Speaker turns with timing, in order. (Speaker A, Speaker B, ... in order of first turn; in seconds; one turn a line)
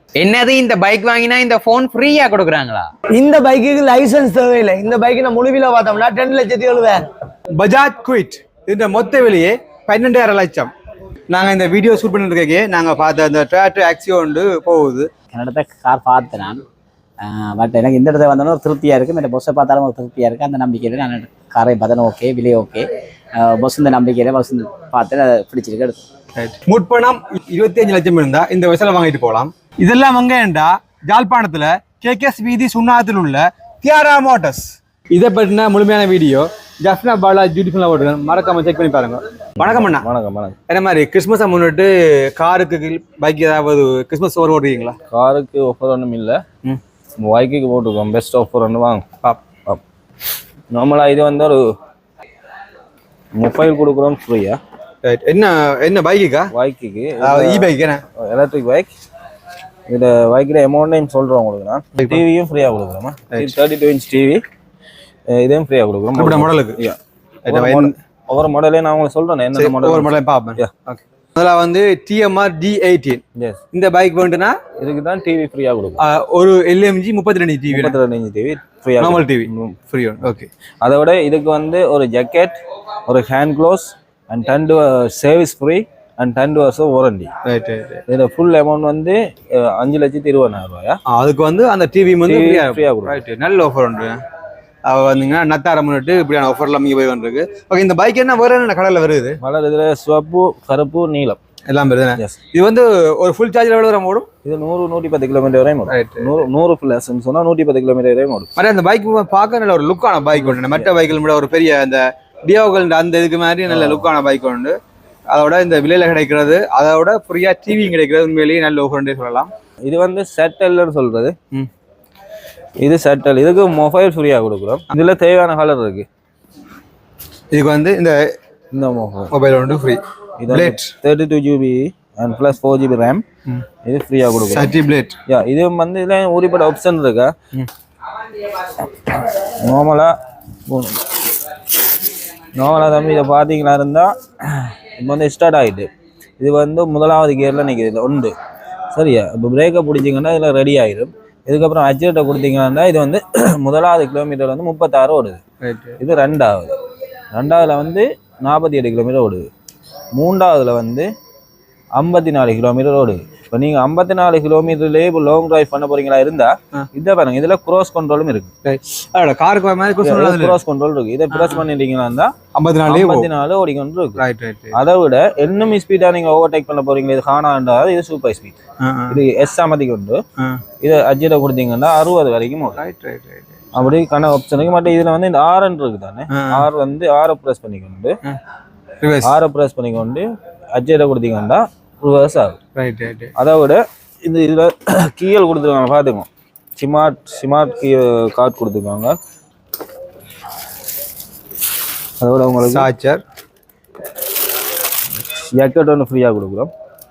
Speaker A: 0.1-2.9
Speaker B: 3.0-7.1
Speaker C: 7.5-10.7
Speaker C: 11.3-15.1
Speaker D: 15.3-16.6
Speaker D: 17.2-22.8
Speaker D: 23.4-26.0
Speaker C: 26.4-40.1
Speaker E: 39.6-40.6
Speaker C: 40.7-45.0
Speaker E: 45.1-46.4
Speaker E: 47.2-49.0
Speaker E: 50.7-51.7
Speaker E: 53.3-54.6
Speaker C: 55.0-56.5
Speaker E: 56.5-58.9
Speaker C: 57.2-58.0
Speaker E: 59.9-64.4
Speaker C: 61.9-62.2
Speaker E: 65.3-70.7
Speaker C: 66.1-66.8
Speaker C: 67.5-67.9
Speaker C: 69.5-74.5
Speaker E: 73.3-73.6
Speaker E: 74.8-76.0
Speaker C: 76.0-78.0
Speaker E: 77.7-79.7
Speaker C: 79.0-80.5
Speaker E: 80.8-87.3
Speaker C: 87.4-88.0
Speaker E: 88.1-91.0
Speaker C: 91.1-94.2
Speaker E: 92.2-93.2
Speaker C: 94.8-99.4
Speaker E: 99.4-101.4
Speaker C: 101.7-104.3
Speaker E: 104.4-108.5
Speaker C: 105.9-106.3
Speaker C: 108.5-114.7
Speaker E: 110.3-110.9
Speaker E: 113.7-114.1
Speaker C: 115.3-119.5
Speaker E: 119.8-121.3
Speaker E: 122.8-126.0
Speaker C: 127.5-128.2
Speaker E: 128.7-129.3
Speaker C: 129.3-130.9
Speaker E: 130.4-133.2
Speaker E: 133.8-134.7
Speaker C: 134.4-135.1
Speaker E: 135.3-137.3
Speaker E: 138.9-140.1
Speaker E: 140.7-141.5
Speaker E: 142.5-145.9
Speaker E: 146.4-148.3
Speaker E: 148.9-155.4
Speaker C: 155.6-156.0
Speaker E: 156.0-156.8
Speaker E: 157.3-159.5
Speaker E: 160.1-161.1
Speaker E: 161.9-168.5
Speaker C: 168.6-170.6
Speaker E: 170.0-172.3
Speaker C: 171.3-171.6
Speaker C: 172.5-173.3
Speaker E: 172.9-178.6
Speaker C: 174.2-174.8
Speaker C: 178.8-179.2
Speaker E: 179.1-180.2
Speaker E: 180.8-182.8
Speaker C: 182.8-183.5
Speaker E: 183.7-188.2
Speaker C: 186.3-186.7
Speaker C: 189.0-189.4
Speaker E: 189.2-192.6
Speaker C: 192.8-193.3
Speaker E: 193.3-199.2
Speaker E: 202.2-202.9
Speaker C: 202.6-203.2
Speaker E: 205.4-206.7